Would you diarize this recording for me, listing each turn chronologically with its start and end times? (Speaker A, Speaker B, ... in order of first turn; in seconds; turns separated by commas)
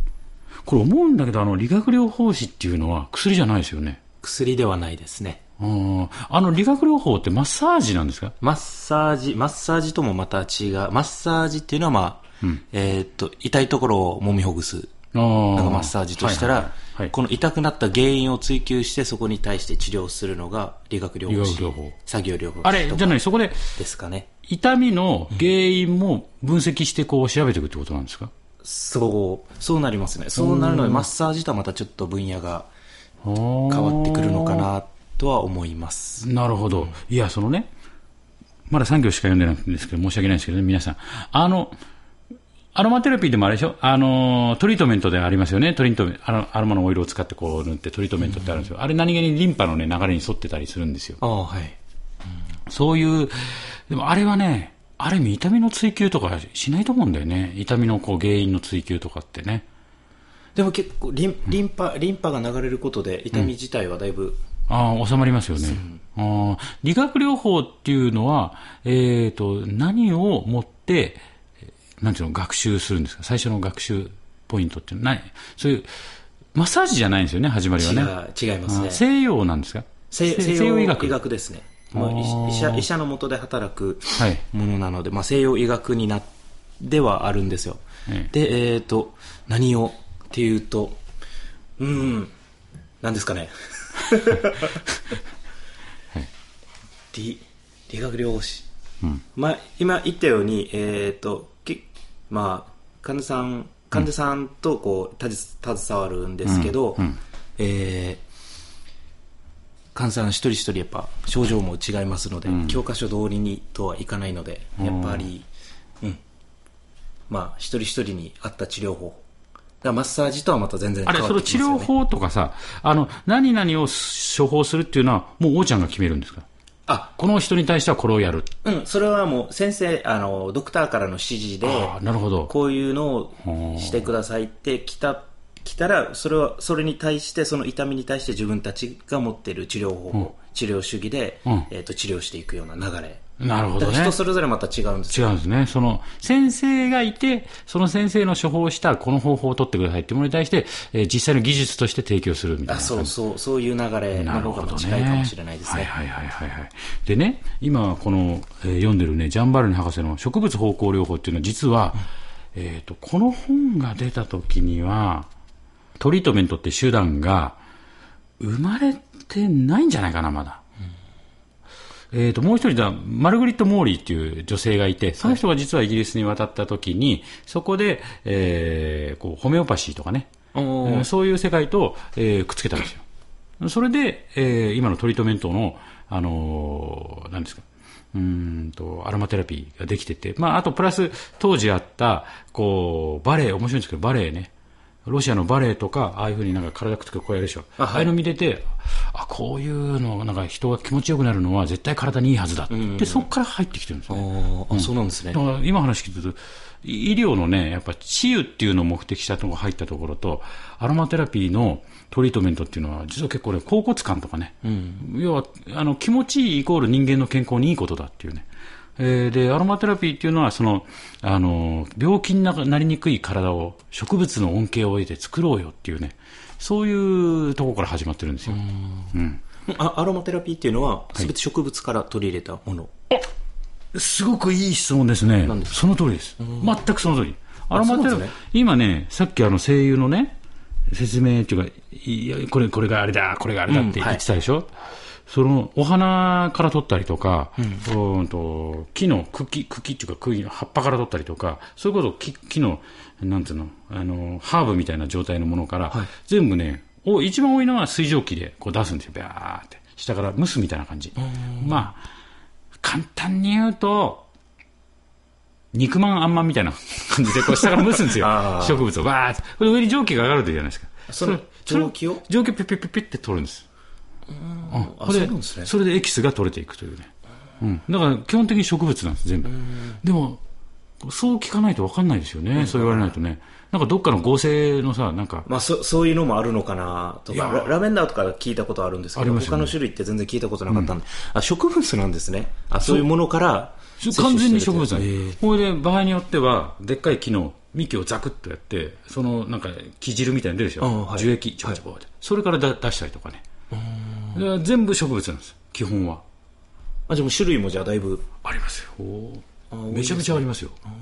Speaker A: 0.7-4.0, Speaker B: 4.2-5.4, Speaker A: 5.6-8.3, Speaker B: 8.4-14.9, Speaker A: 15.1-17.1, Speaker B: 15.5-23.2, Speaker A: 21.3-21.9, Speaker A: 22.6-23.7, Speaker B: 23.7-24.3, Speaker A: 24.4-28.3, Speaker B: 28.6-32.7, Speaker A: 30.4-31.0, Speaker A: 33.2-34.7, Speaker B: 33.7-36.2, Speaker A: 36.2-37.7, Speaker A: 38.7-41.7, Speaker A: 42.7-51.2, Speaker B: 51.2-51.8, Speaker A: 52.7-59.6, Speaker B: 60.5-64.4, Speaker A: 64.7-71.2, Speaker B: 65.7-66.0, Speaker A: 72.0-76.0, Speaker A: 76.5-78.1, Speaker B: 77.8-79.0, Speaker A: 78.7-81.1, Speaker B: 80.1-91.0, Speaker A: 81.9-82.8, Speaker A: 84.2-84.4, Speaker B: 91.8-92.3, Speaker B: 93.0-94.8, Speaker B: 97.1-98.7, Speaker B: 99.3-107.0, Speaker A: 106.5-107.2, Speaker B: 107.6-108.2, Speaker B: 109.9-115.5, Speaker A: 112.5-112.8, Speaker A: 114.8-115.3, Speaker B: 117.3-119.2, Speaker B: 119.8-121.9, Speaker A: 121.0-126.5, Speaker A: 127.1-128.5, Speaker B: 128.6-132.0, Speaker A: 131.6-132.5, Speaker B: 132.5-143.2, Speaker A: 133.4-134.0, Speaker A: 143.4-144.2, Speaker B: 143.8-145.3, Speaker A: 145.1-153.1, Speaker B: 152.7-155.9, Speaker A: 154.1-162.0, Speaker A: 162.5-165.3, Speaker A: 166.0-167.6, Speaker A: 168.4-170.6, Speaker A: 172.1-183.0, Speaker B: 180.5-181.1, Speaker A: 183.6-194.5, Speaker A: 195.1-218.4, Speaker B: 197.8-198.1, Speaker B: 202.7-203.3, Speaker B: 204.1-205.4, Speaker B: 214.6-215.0, Speaker A: 219.0-229.4, Speaker B: 228.6-229.1, Speaker B: 229.7-232.9, Speaker A: 233.9-240.3, Speaker B: 235.4-235.8, Speaker B: 236.4-236.7, Speaker B: 237.7-238.3, Speaker A: 240.9-244.7, Speaker B: 243.7-244.2, Speaker A: 245.3-262.0, Speaker B: 261.3-261.7, Speaker A: 262.8-264.2, Speaker A: 265.7-273.6, Speaker B: 267.6-268.8, Speaker B: 271.1-272.2, Speaker B: 274.3-275.7, Speaker A: 274.7-280.4, Speaker B: 279.5-280.0, Speaker A: 281.0-285.5, Speaker B: 282.5-283.1, Speaker B: 285.4-295.4, Speaker A: 287.3-287.7, Speaker A: 289.1-289.8, Speaker A: 292.8-293.1, Speaker A: 294.0-303.4, Speaker B: 300.8-301.8, Speaker B: 303.7-304.4, Speaker A: 304.3-306.2, Speaker B: 307.1-308.2, Speaker A: 308.4-310.8, Speaker B: 309.7-310.4